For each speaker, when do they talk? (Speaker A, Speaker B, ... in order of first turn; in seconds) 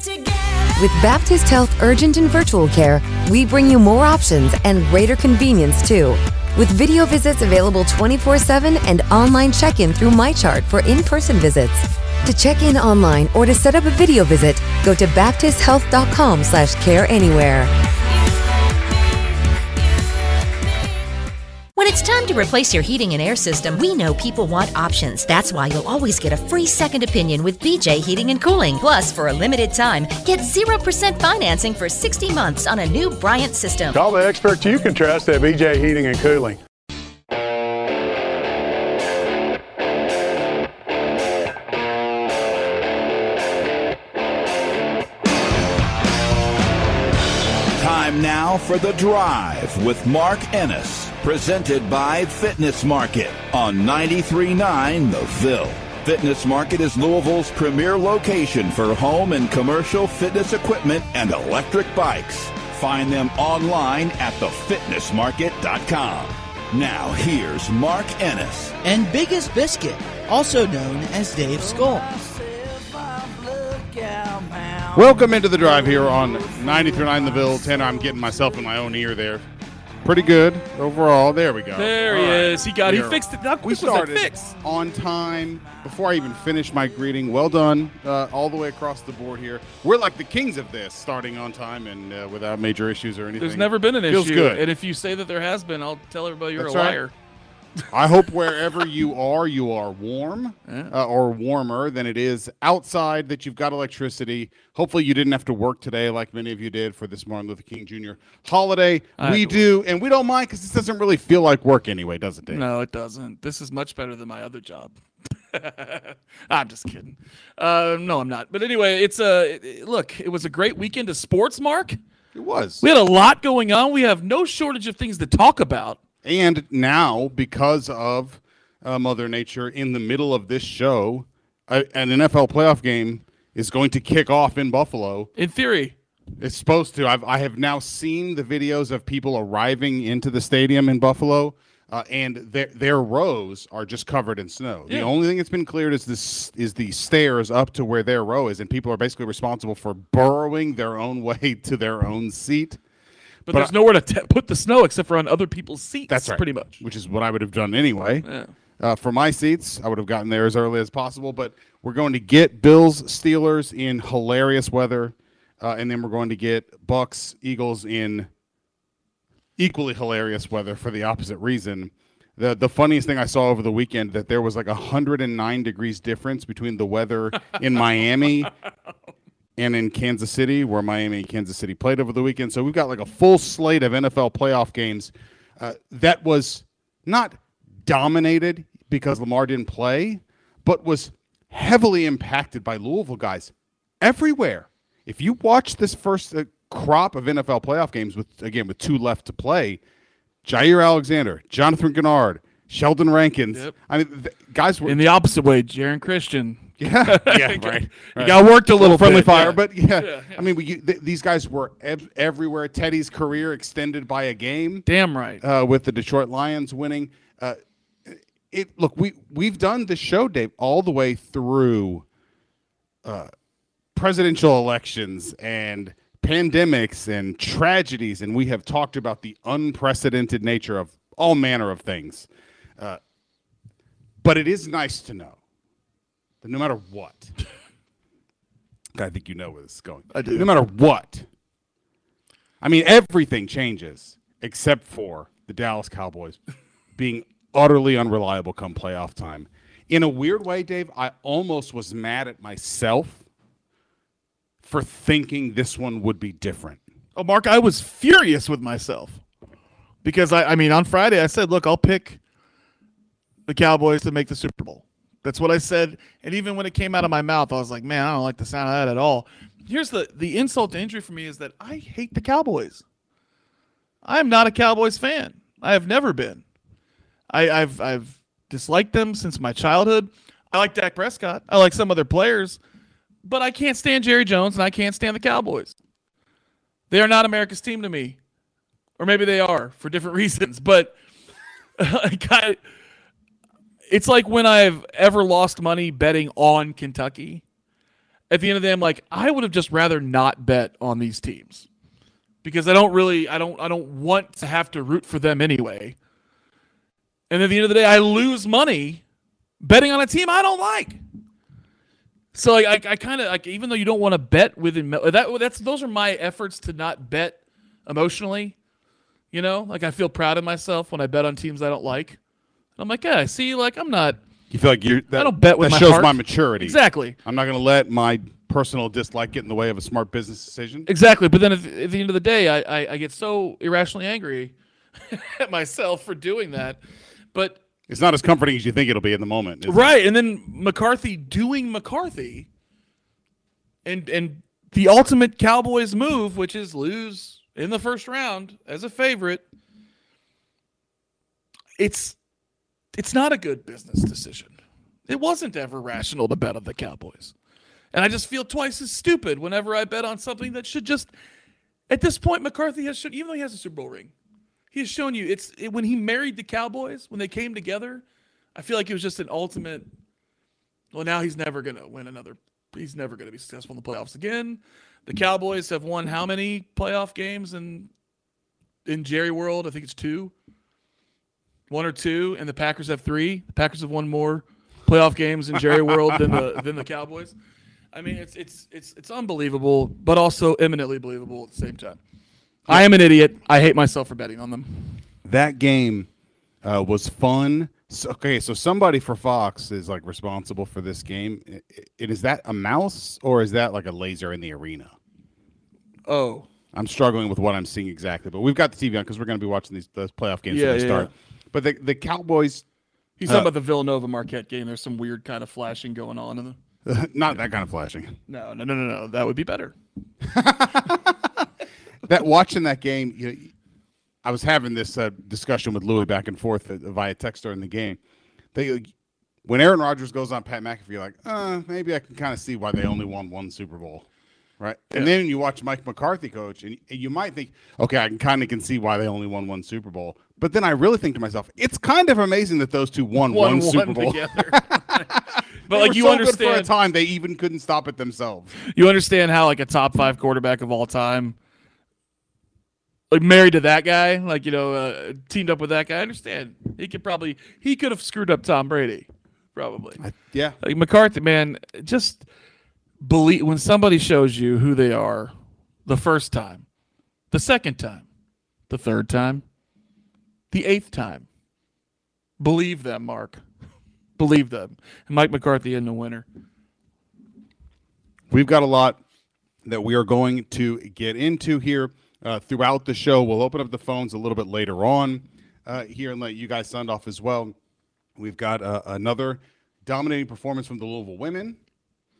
Speaker A: 0.7-17.7
Speaker B: 21.8-34.0
Speaker C: 33.9-36.6
Speaker D: 47.8-68.8
Speaker E: 68.8-72.1, 74.2-74.4
Speaker F: 74.9-79.4, 80.0-94.6, 96.5-97.0, 97.9-112.6, 122.3-122.8, 126.2-135.3, 136.4-152.8, 156.1-158.2, 158.8-168.3, 169.6-178.5, 179.6-199.8, 200.4-205.0, 206.8-214.8, 215.4-222.0, 223.0-223.3, 223.9-233.0, 234.2-235.4, 236.4-237.3, 238.9-241.3, 242.6-246.4, 246.9-253.2, 254.6-256.8, 324.5-330.9, 337.9-339.9, 395.2-396.1, 396.6-404.9, 406.7-412.6, 416.8-418.2, 420.2-421.4, 422.0-423.5, 424.2-428.0, 428.5-428.9, 429.4-434.1, 434.6-448.6, 460.0-460.6, 478.3-479.0, 479.6-487.5, 488.2-491.6
Speaker G: 81.7-84.5, 93.4-97.1, 100.7-100.9, 109.2-109.7, 112.5-115.0, 115.5-122.0, 122.8-126.0, 135.3-135.9, 153.5-156.8, 158.2-158.5, 204.8-210.4, 214.8-215.4, 240.1-240.5, 257.1-259.2, 260.0-262.2, 263.5-272.8, 274.0-276.4, 277.3-282.6, 283.2-285.7, 286.9-288.2, 289.0-290.9, 291.8-292.6, 293.9-297.4, 298.3-301.7, 302.4-305.9, 307.3-309.0, 309.6-311.0, 312.3-318.6, 319.3-322.2, 322.8-324.2, 325.1-327.2, 330.9-334.5, 335.0-336.8, 337.3-337.6, 339.6-342.5, 343.8-349.4, 351.8-352.2, 352.9-354.5, 355.1-357.3, 357.9-361.1, 361.9-364.1, 364.7-368.0, 368.5-369.9, 370.9-377.9, 378.9-380.3, 381.7-387.3, 387.9-392.0, 392.7-395.0, 406.1-406.5, 410.5-411.1, 413.2-416.6, 418.3-419.7, 443.3-446.7, 448.6-451.4, 453.1-460.0, 460.6-462.2, 463.0-465.3, 465.9-466.6, 467.3-468.1, 468.7-469.4, 470.5-471.3, 472.4-473.4, 474.2-476.2